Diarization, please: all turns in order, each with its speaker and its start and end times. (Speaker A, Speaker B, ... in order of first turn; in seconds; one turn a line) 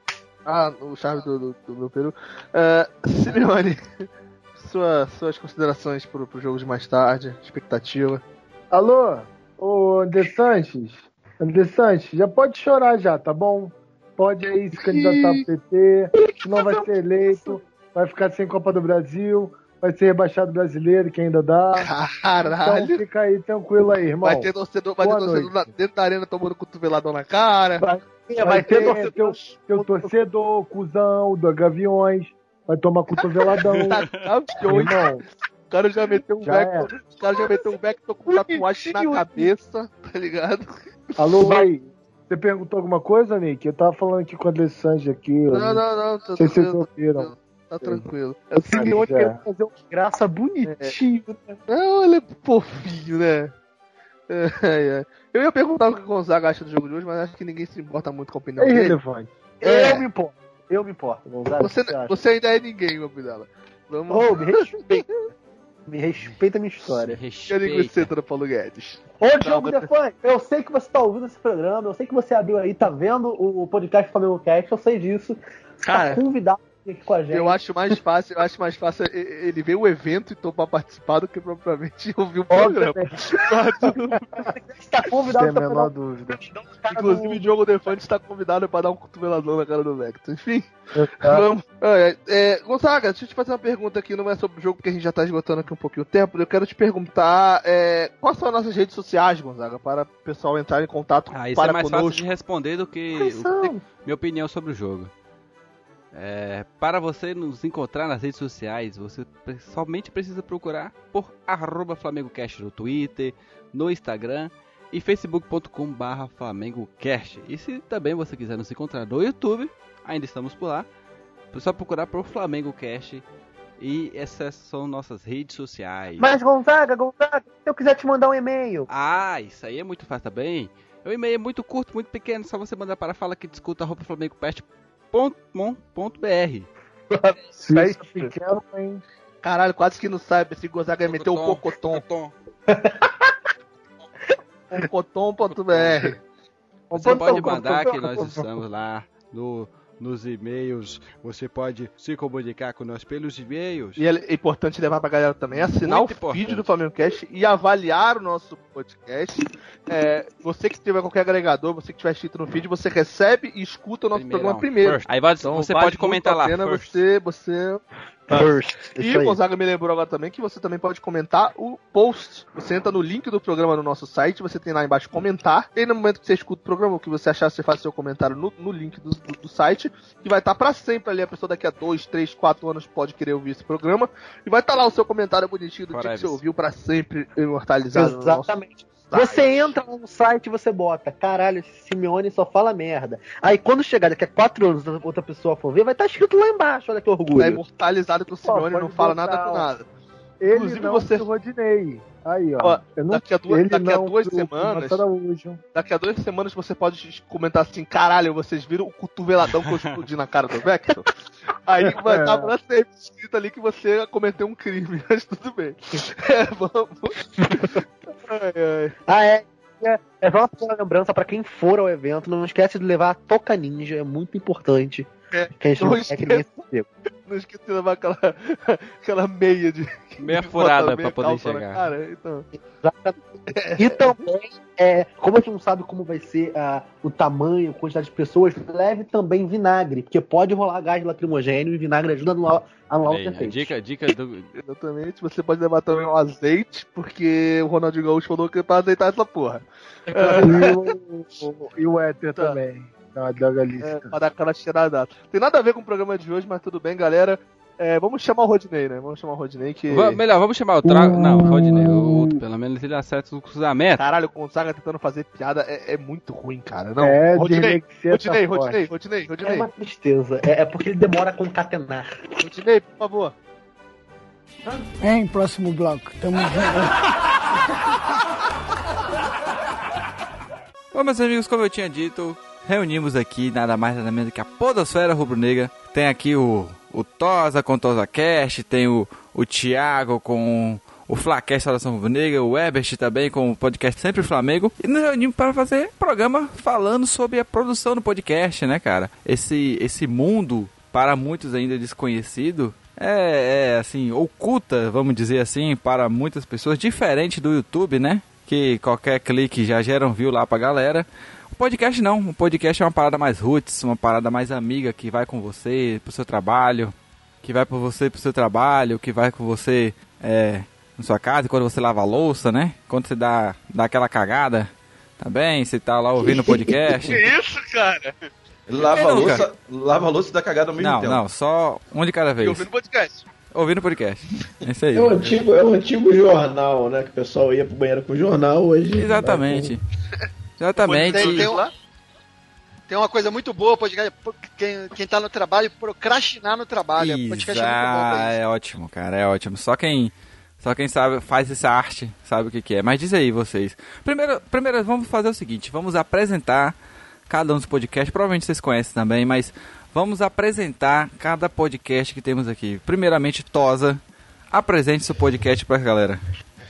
Speaker A: 0.5-4.0
Speaker A: 4.6-8.2
Speaker B: 8.7-21.9
Speaker A: 14.9-15.4
Speaker A: 21.7-23.0
Speaker B: 22.4-25.7
Speaker A: 24.2-27.9
Speaker C: 27.8-29.4
Speaker B: 28.4-34.0
Speaker A: 28.7-29.2
Speaker A: 33.1-35.2
Speaker D: 33.8-34.3
Speaker B: 34.6-35.2
Speaker A: 35.7-40.7
Speaker B: 36.4-36.9
Speaker C: 37.3-37.7
Speaker C: 38.3-39.5
Speaker B: 41.2-45.8
Speaker A: 41.3-41.6
Speaker A: 45.5-49.3
Speaker B: 46.4-48.1
Speaker C: 48.7-51.6
Speaker B: 48.7-49.4
Speaker A: 51.7-53.5
Speaker A: 54.3-59.0
Speaker B: 58.6-60.0
Speaker C: 59.6-62.1
Speaker A: 59.6-60.0
Speaker A: 61.6-65.0
Speaker C: 64.1-65.0
Speaker C: 65.9-67.2
Speaker D: 67.0-68.1
Speaker A: 67.5-69.9
Speaker C: 69.2-78.0
Speaker A: 75.9-76.2
Speaker A: 77.3-84.5
Speaker B: 82.6-83.0
Speaker C: 82.6-83.0
Speaker C: 84.5-87.4
Speaker B: 85.3-86.4
Speaker A: 86.9-102.2
Speaker B: 91.0-91.5
Speaker D: 101.3-105.1
Speaker C: 103.2-103.8
Speaker D: 106.1-120.9
Speaker D: 121.5-123.3
Speaker D: 123.8-126.3
Speaker C: 126.2-128.9
Speaker D: 128.9-136.7
Speaker B: 137.6-139.0
Speaker A: 137.7-138.3
Speaker A: 139.4-142.1
Speaker D: 141.1-142.3
Speaker A: 144.7-146.2
Speaker B: 146.9-148.4
Speaker D: 147.0-154.0
Speaker C: 147.0-147.9
Speaker A: 154.0-188.5
Speaker D: 155.5-156.7
Speaker D: 164.2-167.0
Speaker C: 168.3-169.4
Speaker D: 185.9-186.4
Speaker C: 187.9-197.6
Speaker A: 189.1-189.7
Speaker A: 197.3-199.9
Speaker B: 198.4-199.7
Speaker B: 200.4-205.6
Speaker A: 200.5-201.3
Speaker A: 202.6-205.0
Speaker A: 205.7-211.1
Speaker D: 209.5-210.0
Speaker A: 211.7-218.9
Speaker B: 211.8-212.5
Speaker C: 217.4-217.7
Speaker C: 219.1-226.9
Speaker A: 225.3-226.5
Speaker A: 227.3-232.5
Speaker D: 230.2-231.9
Speaker C: 232.8-233.2
Speaker A: 233.5-234.1
Speaker C: 233.8-243.7
Speaker D: 243.1-244.5
Speaker A: 244.6-250.9
Speaker B: 250.1-254.2
Speaker A: 253.8-260.2
Speaker D: 259.9-264.0
Speaker B: 260.8-262.4
Speaker A: 264.0-269.7
Speaker B: 267.0-268.9
Speaker C: 269.4-272.3
Speaker A: 272.4-273.3
Speaker E: 274.7-276.9
Speaker F: 280.9-327.2
Speaker G: 326.2-327.1
Speaker A: 327.1-328.3
Speaker H: 328.7-331.2
Speaker A: 328.9-329.4
Speaker F: 328.9-329.5
Speaker F: 330.8-332.7
Speaker A: 332.4-333.3
Speaker F: 333.5-335.4
Speaker G: 334.9-339.8
Speaker F: 338.9-339.8
Speaker F: 340.6-341.5
Speaker A: 340.8-341.7
Speaker I: 341.1-341.7
Speaker I: 342.9-348.4
Speaker F: 347.0-366.2